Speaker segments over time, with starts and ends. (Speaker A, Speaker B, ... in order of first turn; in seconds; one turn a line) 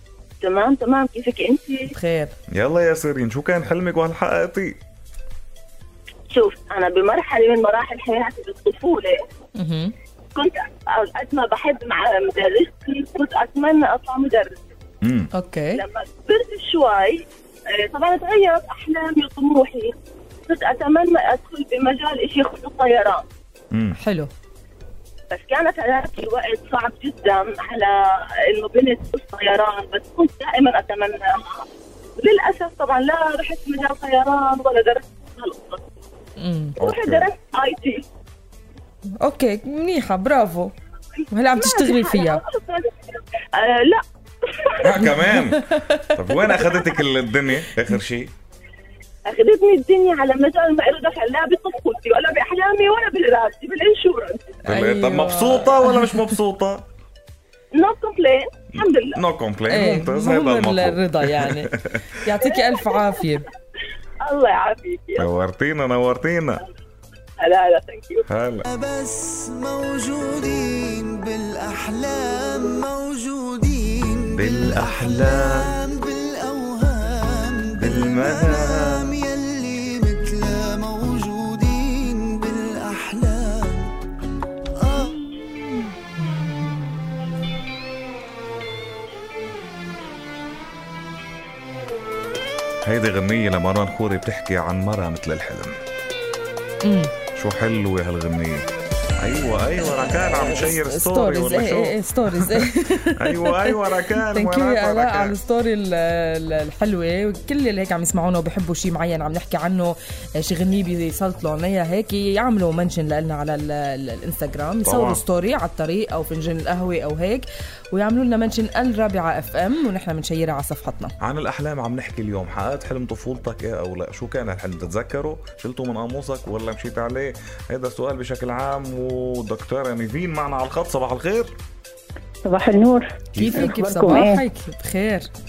Speaker A: 0.4-1.8
Speaker B: 1.9-2.4
Speaker C: 2.5-4.8
Speaker A: 6.3-9.2
Speaker B: 9.6-9.9
Speaker A: 10.3-14.6
Speaker C: 15.0-15.3
Speaker B: 15.3-15.8
Speaker A: 15.8-19.9
Speaker A: 20.5-23.3
Speaker C: 23.7-24.0
Speaker B: 24.0-24.3
Speaker A: 25.3-27.9
Speaker A: 28.5-31.7
Speaker A: 32.2-35.8
Speaker B: 36.4-36.8
Speaker C: 36.8-37.3
Speaker A: 36.8-38.0
Speaker B: 39.2-40.7
Speaker B: 41.3-42.4
Speaker A: 41.5-45.1
Speaker C: 44.8-45.6
Speaker B: 45.1-46.1
Speaker C: 46.2-48.3
Speaker A: 49.3-54.4
Speaker C: 54.7-56.8
Speaker B: 54.7-56.3
Speaker A: 57.7-59.2
Speaker C: 58.8-62.0
Speaker B: 59.7-63.5
Speaker A: 64.2-65.3
Speaker C: 65.2-66.6
Speaker A: 67.4-68.3
Speaker C: 68.3-68.7
Speaker D: 68.7-84.0
Speaker C: 74.3-75.8
Speaker C: 77.8-79.1
Speaker D: 84.8-85.2
Speaker C: 92.8-95.7
Speaker B: 96.8-97.1
Speaker C: 97.4-98.7
Speaker C: 99.2-105.4
Speaker B: 100.8-121.1
Speaker C: 114.8-115.2
Speaker C: 121.2-131.5
Speaker E: 132.4-134.4
Speaker C: 133.3-133.7
Speaker B: 133.4-135.3